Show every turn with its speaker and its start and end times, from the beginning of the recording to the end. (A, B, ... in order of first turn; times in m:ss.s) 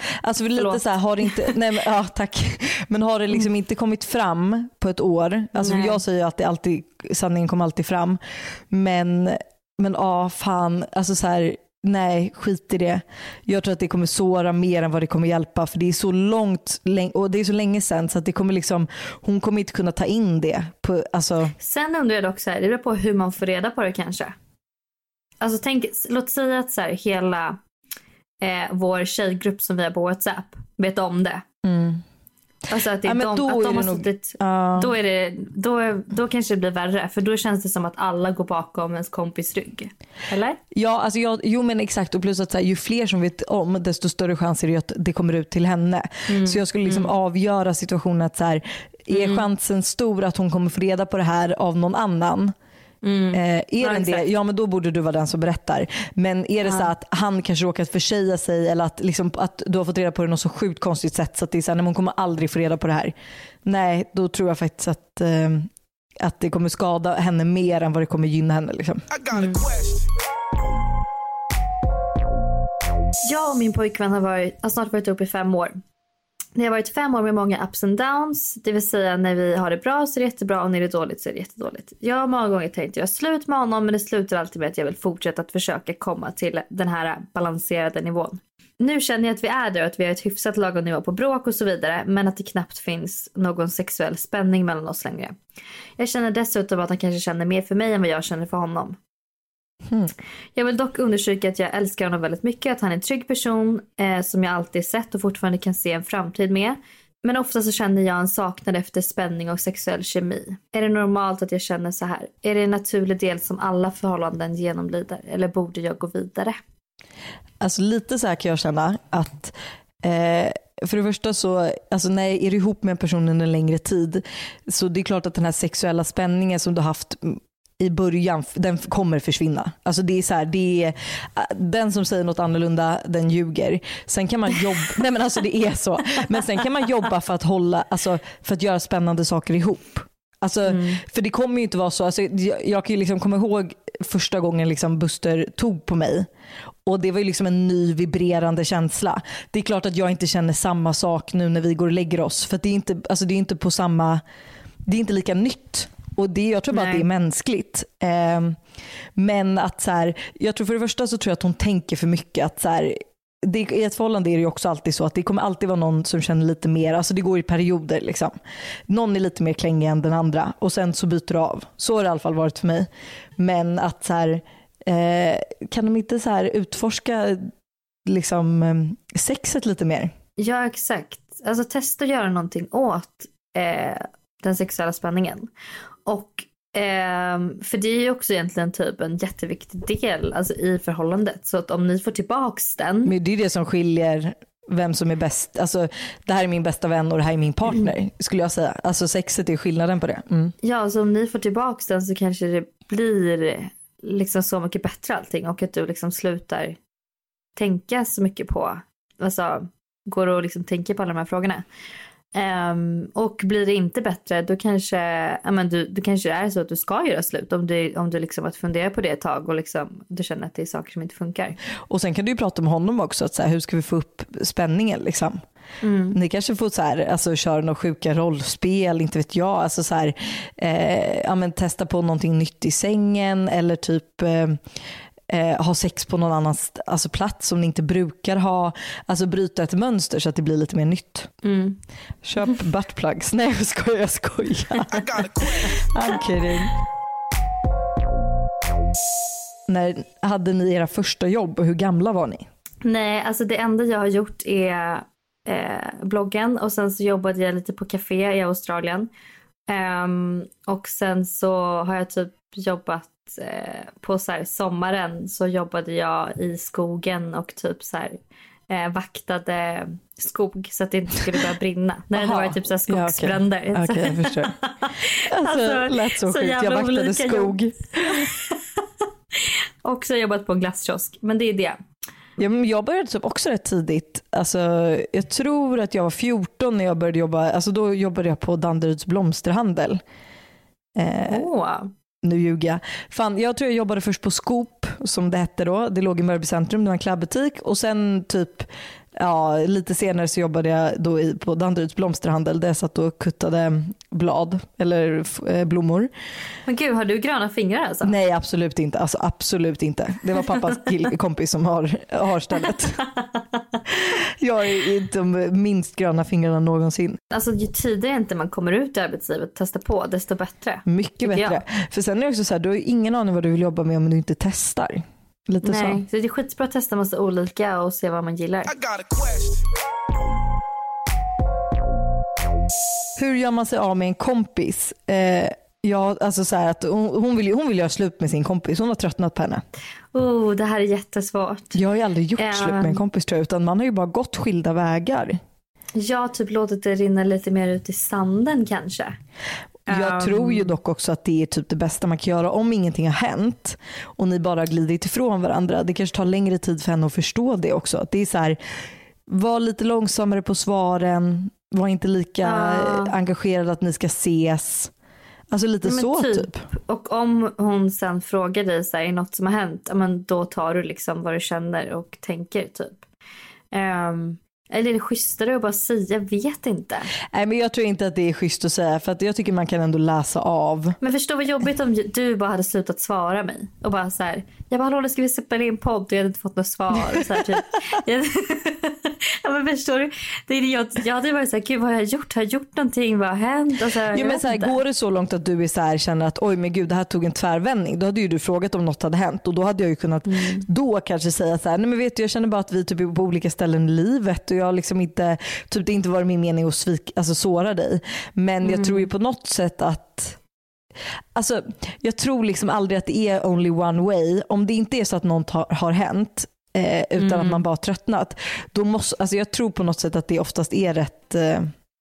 0:00.2-0:08.2 A
0:00.6-0:01.5 B
0:05.6-0:06.0 B
0:08.7-0:21.6 A
0:21.6-0:24.4 B
0:25.4-0:27.6 B
0:28.4-0:31.4 B
0:31.6-0:32.0 A
0:32.7-0:40.6 B
0:33.0-0:34.9 A
0:40.7-0:52.5 A
0:46.3-0:47.1 B
0:49.1-0:49.4 B
0:53.0-0:54.2 B
0:53.3-1:05.7 A
1:06.2-1:09.1 A
1:09.1-1:10.1 C
1:13.2-1:15.8 B
1:16.6-1:35.4 B
1:36.0-1:39.0 B
1:39.9-1:40.1 A
1:40.6-1:56.6 B
1:57.6-2:26.3 A
2:20.7-2:21.0 B
2:26.9-2:34.2 A
2:34.9-2:38.6 A
2:36.7-2:37.0 B
2:39.2-2:48.3 A
2:48.9-2:57.5 A
2:58.1-3:00.1 A
3:00.4-3:05.5 B
3:06.1-3:13.1 B
3:13.0-3:20.5 A
3:20.6-3:26.8 B
3:27.6-3:31.6 B
3:32.3-3:41.6 B
3:41.9-3:45.4 A
3:45.8-3:46.2 B
3:46.1-3:54.6 A
3:55.3-4:01.3 A
4:01.4-4:01.8 B
4:02.2-4:05.1 A
4:04.9-4:05.8 C
4:05.6-4:06.8 A
4:09.7-4:12.5 A
4:12.8-4:19.1 B
4:19.7-4:38.6 B
4:32.1-4:34.6 A
4:35.2-4:38.3 A
4:39.4-4:41.8 B
4:42.4-4:50.0 A
4:51.0-4:51.5 A
4:51.2-4:51.9 B
4:52.2-5:06.1 A
5:06.7-5:08.1 B
5:08.0-5:13.0 A
5:13.9-5:17.2 A
5:17.3-5:21.6 B
5:20.8-5:26.0 A
5:25.6-5:28.7 B
5:28.7-5:29.7 C
5:33.2-5:39.6 A
5:40.1-5:41.8 B
5:41.7-5:45.4 A
5:42.4-5:43.0 B
5:46.0-5:49.2 B
5:49.9-5:50.8 B
5:49.9-5:58.6 A
5:59.3-6:04.9 A
6:02.4-6:03.1 B
6:05.5-6:06.6 A
6:05.9-6:13.1 B
6:13.7-6:17.1 B
6:17.3-6:21.0 A
6:21.0-6:34.8 B
6:27.2-6:27.6 A
6:34.1-6:50.4 A
6:40.3-6:40.6 B
6:48.6-6:49.1 B
6:51.4-7:01.7 A
6:57.2-6:57.6 B